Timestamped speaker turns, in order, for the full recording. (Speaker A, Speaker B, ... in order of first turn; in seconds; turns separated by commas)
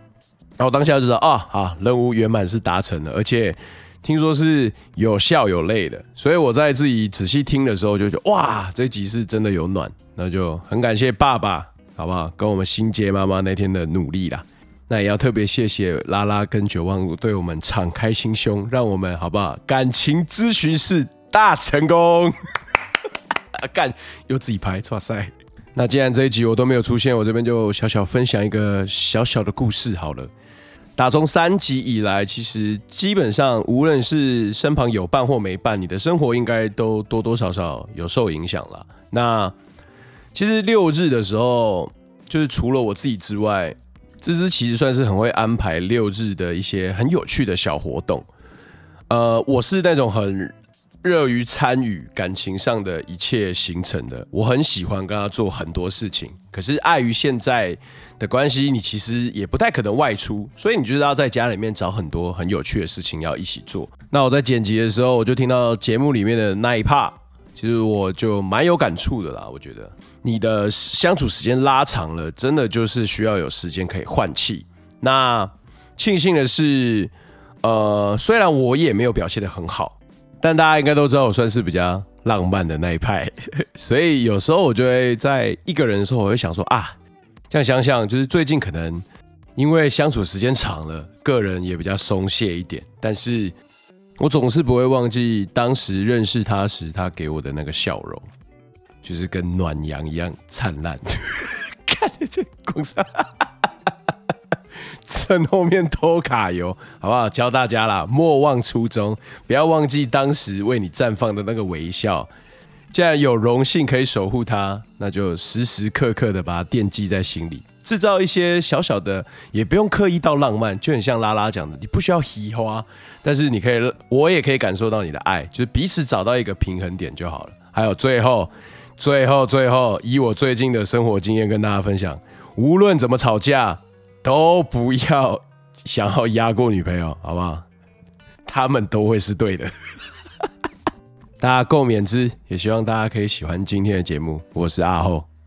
Speaker A: 0.6-22.4, Speaker A: 23.6-30.3, Speaker A: 31.0-39.5, Speaker A: 40.3-48.3, Speaker A: 49.1-77.1, Speaker A: 77.6-87.0, Speaker A: 87.5-89.0, Speaker A: 89.6-93.5, Speaker A: 94.2-98.3, Speaker A: 99.0-103.5, Speaker A: 105.0-112.3, Speaker A: 112.9-137.7, Speaker A: 138.5-139.7, Speaker A: 141.4-145.3